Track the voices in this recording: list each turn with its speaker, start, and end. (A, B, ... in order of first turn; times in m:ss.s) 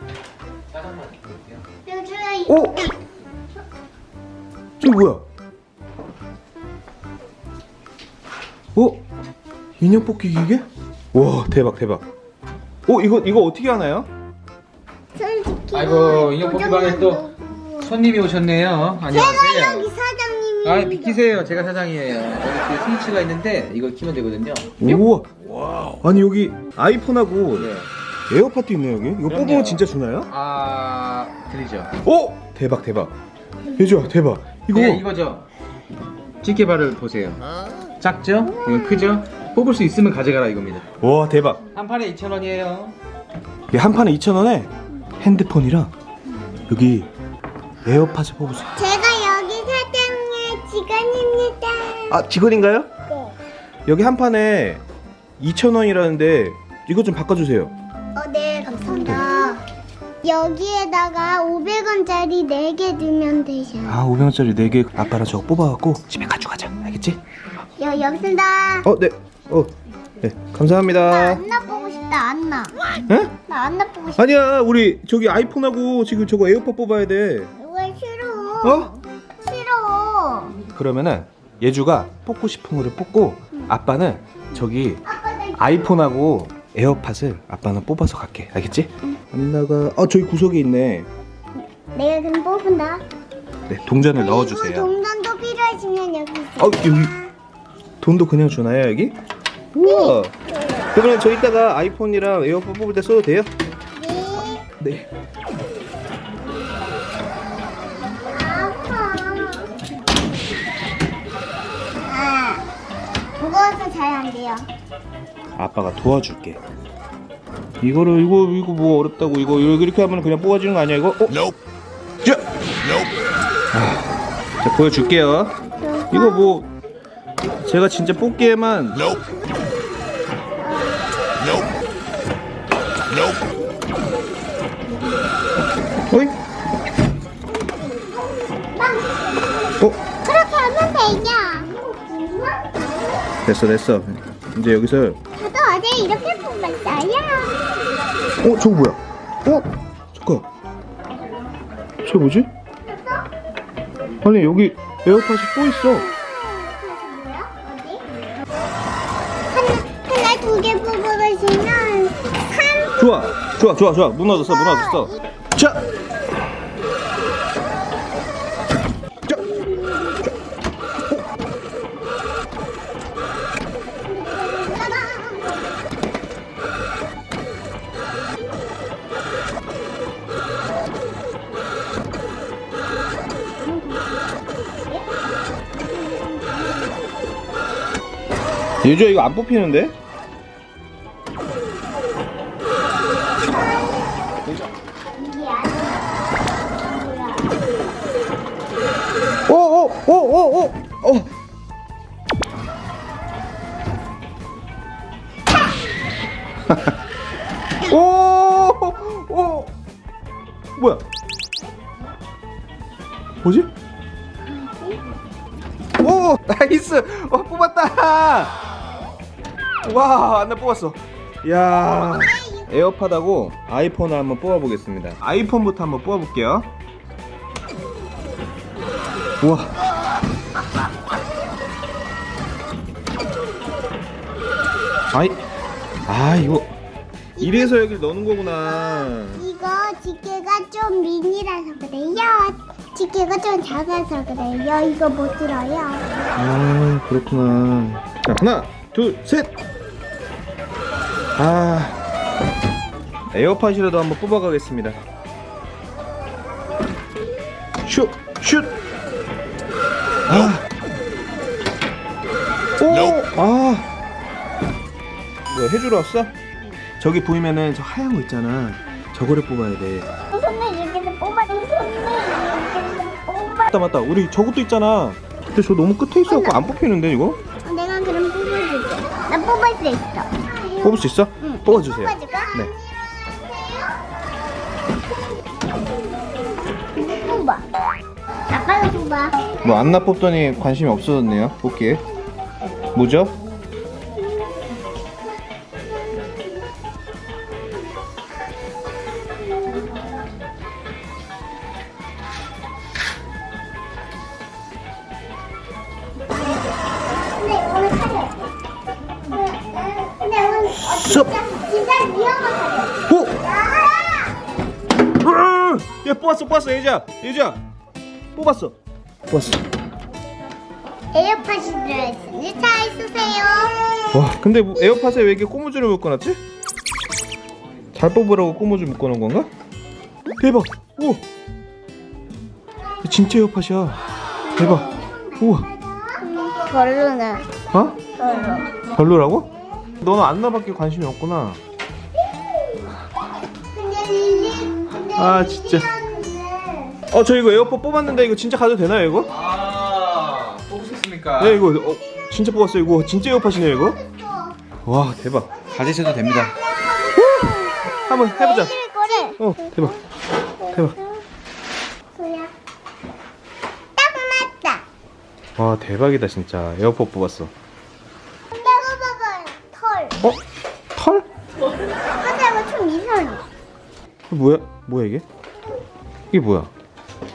0:00.7-0:01.5 A
0:01.8-0:02.9 B
0:02.5-0:02.8 C
0:04.8-0:05.2 C
0:08.7-0:09.0 C
0:09.8-0:12.0 C
0:12.8-0:14.1 C
0:15.1-0:17.9 B
0:15.7-0:17.2 A
0:17.8-0:19.9 A
0:19.1-0:21.2 B
0:20.6-0:26.0 A
0:24.8-0:25.3 C
0:26.0-0:27.7 C
0:27.6-0:27.9 A
0:28.3-0:30.3 C
0:29.3-0:31.9 A
0:32.0-0:33.1 C
0:33.7-0:35.0 C
0:34.7-0:35.4 A
0:36.4-0:37.4 A
0:38.0-0:40.9 A
0:41.0-0:41.6 C
0:41.7-0:43.0 A
0:43.7-0:45.9 C
0:46.7-0:47.1 C
0:47.8-0:48.7 C
0:48.8-0:52.2 B
0:52.1-0:52.9 C
0:53.9-0:54.8 C
0:55.4-0:57.7 C
0:58.1-0:59.6 B
1:00.2-1:04.0 B
1:03.9-1:07.2 C
1:07.8-1:08.9 B
1:08.8-1:11.4 C
1:11.0-1:12.8 B
1:13.1-1:13.3 C
1:13.5-1:14.3 B
1:14.2-1:17.5 C
1:17.6-1:20.6 B
1:18.6-1:18.9 C
1:20.7-1:25.0 C
1:25.0-1:25.7 B
1:25.6-1:31.1 C
1:31.9-1:33.0 B
1:33.7-1:34.9 C
1:34.1-1:37.2 B
1:36.6-1:37.1 C
1:38.0-1:39.2 C
1:39.7-1:40.3 C
1:39.8-1:40.1 B
1:40.9-1:43.5 C
1:44.0-1:44.6 B
1:44.8-1:45.1 C
1:48.3-1:49.7 B
1:52.0-1:52.6 B
1:53.4-1:54.7 B
1:55.6-1:56.6 C
1:57.8-2:01.5 C
2:03.7-2:05.5 C
2:05.8-2:06.6 B
2:06.1-2:06.7 C
2:07.6-2:09.1 C
2:10.6-2:11.1 B
2:16.1-2:16.3 C
2:17.6-2:19.6 B
2:20.2-2:22.8 B
2:23.4-2:25.2 C
2:25.3-2:27.6 B
2:28.4-2:30.4 C
2:32.0-2:32.5 C
2:34.2-2:36.1 C
2:35.9-2:38.0 B
2:39.5-2:43.2 B
2:43.0-2:45.8 C
2:44.6-2:45.1 B
2:49.3-2:50.2 B
2:54.0-2:55.7 B
3:03.6-3:04.0 B
3:06.0-3:06.8 B
3:08.8-3:09.9 C
3:15.2-3:16.1 B
3:16.7-3:17.5 B
3:19.5-3:21.3 C
3:27.8-3:29.7 C
3:30.8-3:31.0 C
3:33.4-3:33.7 C
3:36.0-3:38.5 C
3:39.8-3:46.7 C
3:42.1-3:42.7 B
3:49.4-3:49.8 C
3:55.1-3:55.4 C
3:56.1-3:56.7 C
3:57.4-3:57.8 B
3:57.4-3:59.4 C
3:58.8-4:06.0 B
4:06.4-4:09.5 C
4:11.4-4:12.0 C
4:13.3-4:15.0 C
4:17.8-4:18.7 C
4:20.3-4:20.6 C
4:22.8-4:23.9 C
4:25.5-4:26.3 C
4:27.0-4:30.1 C
4:30.3-4:33.7 B
4:33.7-4:37.4 C
4:36.3-4:36.7 B
4:37.6-4:44.0 B
4:40.8-4:42.7 C
4:47.0-4:47.7 B
4:48.5-4:49.5 B
4:49.6-4:52.0 C
4:52.9-4:53.3 C
5:07.3-5:08.4 B
5:09.3-5:14.3 B
5:10.7-5:11.3 C
5:13.1-5:13.4 C
5:15.2-5:17.6 C
5:18.3-5:18.7 C
5:19.3-5:19.6 C
5:21.1-5:23.8 B
5:24.1-5:26.4 C
5:27.9-5:29.5 C
5:30.4-5:31.2 C
5:33.0-5:34.0 C
5:34.5-5:37.5 B
5:34.6-5:35.7 C
5:37.7-5:38.0 C
5:38.2-5:38.8 B
5:38.8-5:41.6 C
5:43.7-5:47.0 B
5:45.1-5:45.9 C
5:47.1-5:49.3 C
5:49.3-5:51.6 A
5:51.4-5:54.0 C
5:53.7-5:54.6 B
5:54.8-5:55.5 C
5:55.7-5:56.6 A
5:56.1-5:59.9 B
5:57.2-5:58.7 C
5:59.2-6:00.0 C
6:00.6-6:01.0 B
6:02.1-6:02.5 B
6:04.0-6:04.8 B
6:05.6-6:07.5 C
6:08.5-6:10.2 B
6:10.9-6:11.2 C
6:12.2-6:13.4 B
6:14.3-6:15.2 C
6:16.3-6:16.7 C